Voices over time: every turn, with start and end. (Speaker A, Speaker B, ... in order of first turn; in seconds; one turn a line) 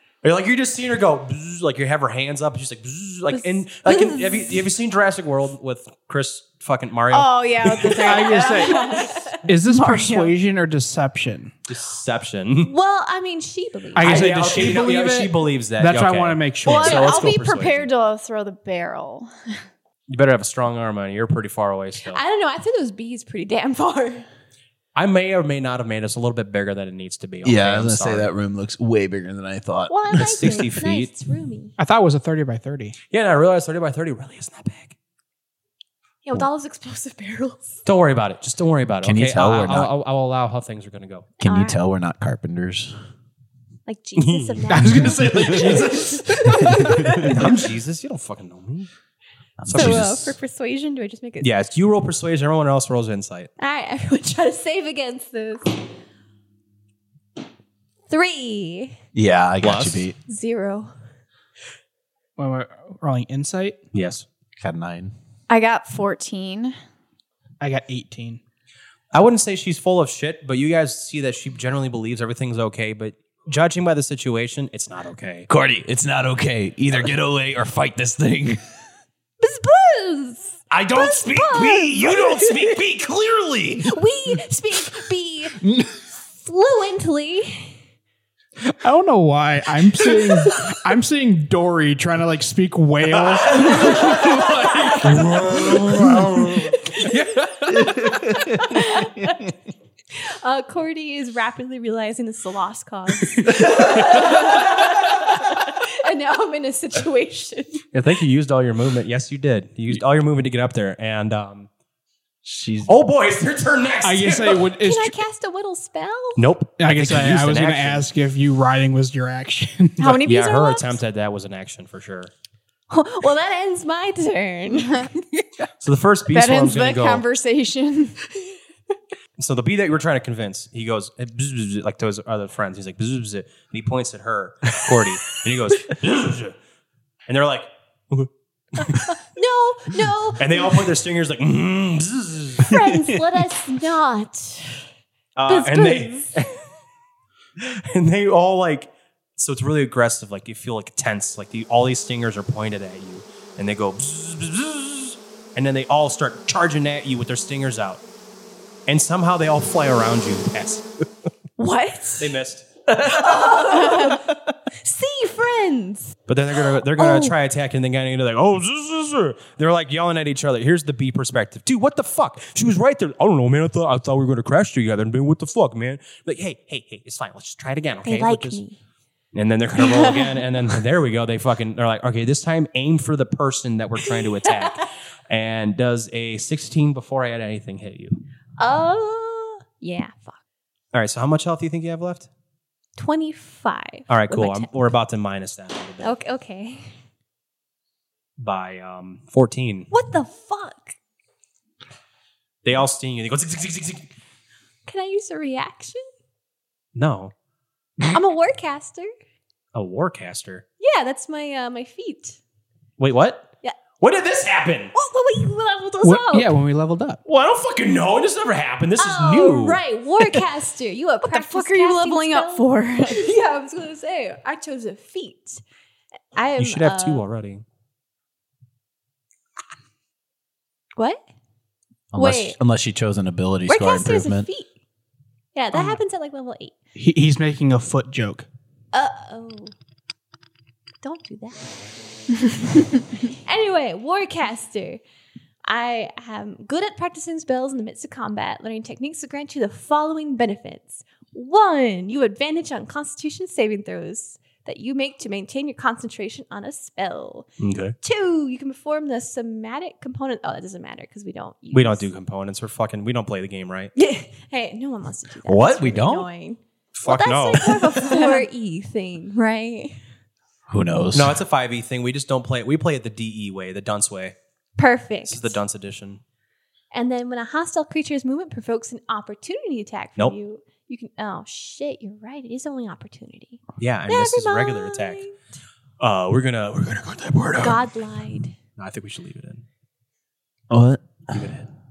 Speaker A: 0.2-8.4
Speaker B: 3.3-4.6
Speaker C: 7.1-10.3
Speaker D: 8.0-11.5
Speaker B: 8.4-9.3
Speaker A: 11.7-12.7
Speaker B: 12.6-14.3
Speaker D: 13.9-17.2
Speaker A: 14.0-17.9
Speaker C: 16.7-19.3
Speaker A: 20.1-22.2
Speaker B: 22.1-24.3
Speaker A: 24.9-28.3
Speaker E: 27.4-30.7
Speaker B: 29.9-31.8
Speaker A: 30.1-31.1
Speaker D: 31.8-33.0
Speaker A: 33.1-35.0
Speaker B: 36.2-37.8
Speaker A: 37.9-41.3
Speaker E: 39.0-39.9
Speaker B: 41.4-41.8
Speaker E: 41.4-42.9
Speaker B: 43.9-47.4
Speaker A: 44.2-46.1
Speaker D: 44.7-47.3
Speaker E: 45.5-45.8
Speaker A: 47.2-48.9
Speaker E: 49.6-50.4
Speaker A: 49.7-50.2
Speaker B: 49.7-51.5
Speaker A: 51.4-53.5
Speaker B: 53.6-55.9
Speaker B: 58.1-59.0
Speaker E: 59.1-60.2
Speaker A: 59.6-60.1
Speaker B: 60.3-60.9
Speaker D: 62.4-63.8
Speaker A: 63.9-64.2
Speaker E: 64.6-65.1
Speaker C: 65.5-66.7
Speaker D: 67.6-68.4
Speaker A: 69.1-75.5
Speaker E: 75.5-78.6
Speaker B: 79.4-82.7
Speaker E: 80.7-84.0
Speaker B: 83.8-85.6
Speaker E: 85.6-86.0
Speaker B: 86.4-87.8
Speaker D: 88.7-94.3
Speaker A: 93.2-98.2
Speaker B: 93.9-95.2
Speaker B: 96.5-97.1
Speaker E: 97.8-98.6
Speaker B: 98.5-99.5
Speaker B: 100.2-107.8
Speaker A: 103.4-104.5
Speaker A: 107.9-111.7
Speaker E: 112.4-112.9
Speaker A: 112.9-114.7
Speaker D: 114.0-115.2
Speaker B: 114.6-116.4
Speaker A: 116.4-118.1
Speaker D: 116.8-120.2
Speaker C: 120.0-120.9
Speaker A: 120.1-122.3
Speaker B: 122.9-125.1
Speaker A: 125.8-127.2
Speaker C: 126.3-128.2
Speaker A: 129.4-136.6
Speaker A: 137.3-139.1
Speaker B: 138.8-140.9
Speaker A: 140.4-142.8
Speaker B: 142.6-144.9
Speaker A: 145.4-146.5
Speaker B: 145.5-146.4
Speaker A: 147.6-158.0
Speaker A: 158.9-160.9
Speaker B: 161.6-162.3
Speaker A: 162.2-162.9
Speaker B: 163.0-166.2
Speaker A: 166.3-178.6
Speaker B: 166.7-167.3
Speaker B: 178.0-178.8
Speaker A: 179.3-188.2
Speaker B: 179.9-180.3
Speaker B: 188.6-190.4
Speaker A: 190.9-192.3
Speaker B: 193.0-194.7
Speaker A: 194.1-196.2
Speaker B: 196.0-196.9
Speaker A: 198.4-199.9
Speaker B: 199.9-201.0
Speaker A: 202.6-204.1
Speaker B: 204.9-206.1
Speaker A: 206.9-207.3
Speaker B: 208.1-209.1
Speaker A: 209.7-210.6
Speaker B: 210.8-212.4
Speaker A: 213.0-214.9
Speaker B: 214.9-216.6
Speaker D: 216.0-217.2
Speaker A: 217.2-219.8
Speaker B: 219.0-225.6
Speaker C: 221.2-223.2
Speaker B: 226.3-227.2
Speaker A: 226.6-227.6
Speaker E: 232.1-234.5
Speaker B: 232.2-232.6
Speaker B: 233.7-234.7
Speaker B: 235.6-236.7
Speaker D: 236.9-238.5
Speaker B: 238.9-239.7
Speaker B: 241.0-241.7
Speaker B: 243.3-245.0
Speaker B: 245.7-257.5
Speaker A: 257.6-258.0
Speaker B: 258.0-262.1
Speaker A: 261.7-263.9
Speaker B: 263.9-269.9
Speaker E: 265.5-266.3
Speaker A: 266.9-268.1
Speaker C: 268.1-268.4
Speaker E: 270.7-271.4
Speaker A: 271.1-274.4
Speaker B: 274.8-275.6
Speaker A: 275.3-276.2
Speaker B: 276.9-285.4
Speaker A: 283.8-285.2
Speaker A: 286.0-287.8
Speaker B: 287.6-288.6
Speaker A: 288.8-289.6
Speaker E: 290.7-291.6
Speaker A: 291.3-291.6